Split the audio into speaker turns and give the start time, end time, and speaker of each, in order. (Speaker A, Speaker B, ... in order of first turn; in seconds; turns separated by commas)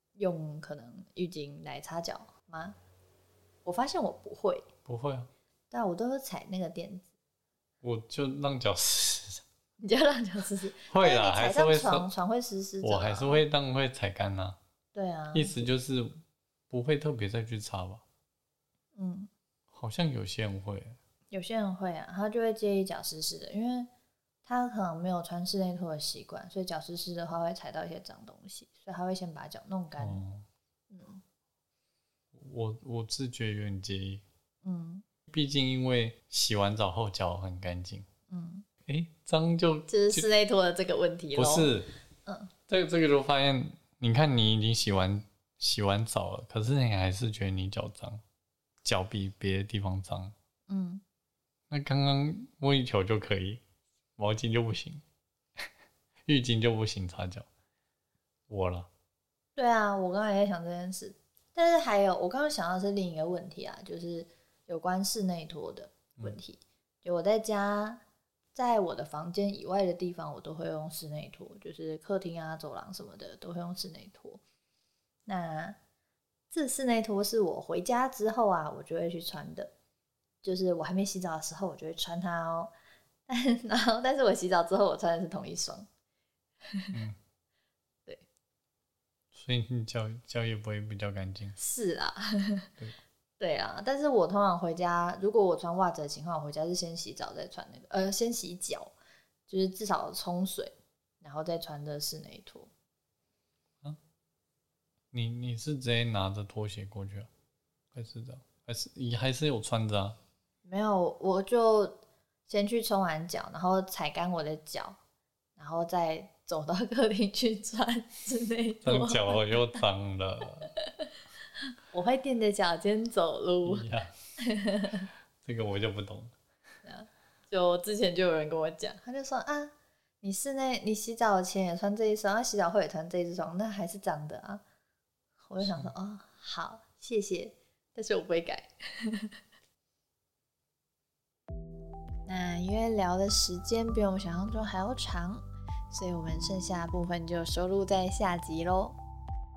Speaker A: 0.2-2.8, Speaker A: 3.6-4.7, Speaker B: 4.9-5.3, Speaker A: 5.7-7.1, Speaker B: 7.8-9.4, Speaker A: 9.8-13.4, Speaker B: 10.9-12.1, Speaker B: 12.8-14.6, Speaker A: 14.9-15.7, Speaker B: 15.3-16.1, Speaker B: 16.7-18.0, Speaker A: 19.0-19.3, Speaker B: 19.7-21.0, Speaker A: 21.3-23.9, Speaker A: 24.4-30.2, Speaker B: 30.0-30.5, Speaker A: 30.9-31.2, Speaker B: 32.3-34.2, Speaker A: 34.6-35.0, Speaker B: 35.3-38.1, Speaker A: 38.3-38.7, Speaker B: 38.9-40.2, Speaker A: 39.9-41.7, Speaker B: 41.4-41.9, Speaker A: 42.3-42.5, Speaker B: 42.7-48.2, Speaker B: 48.8-50.3, Speaker A: 50.7-51.0, Speaker B: 51.7-53.6, Speaker B: 54.2-55.0, Speaker B: 56.3-57.5, Speaker B: 58.5-58.9, Speaker A: 59.6-68.0, Speaker A: 68.5-74.4, Speaker A: 75.3-75.8, Speaker A: 76.5-79.7, Speaker A: 80.4-82.7, Speaker A: 83.3-85.9, Speaker A: 86.7-87.0, Speaker B: 89.3-91.6, Speaker A: 91.6-92.7, Speaker A: 93.4-98.9, Speaker A: 99.5-102.7, Speaker B: 105.1-107.3, Speaker B: 107.9-110.2, Speaker A: 110.7-115.0, Speaker A: 115.6-119.5, Speaker B: 118.8-120.7, Speaker A: 120.8-121.1, Speaker A: 121.9-123.8, Speaker B: 123.7-124.1, Speaker A: 124.4-125.1, Speaker B: 125.4-126.3, Speaker A: 126.8-134.6, Speaker A: 135.5-139.3, Speaker B: 135.6-135.9, Speaker A: 142.3-149.0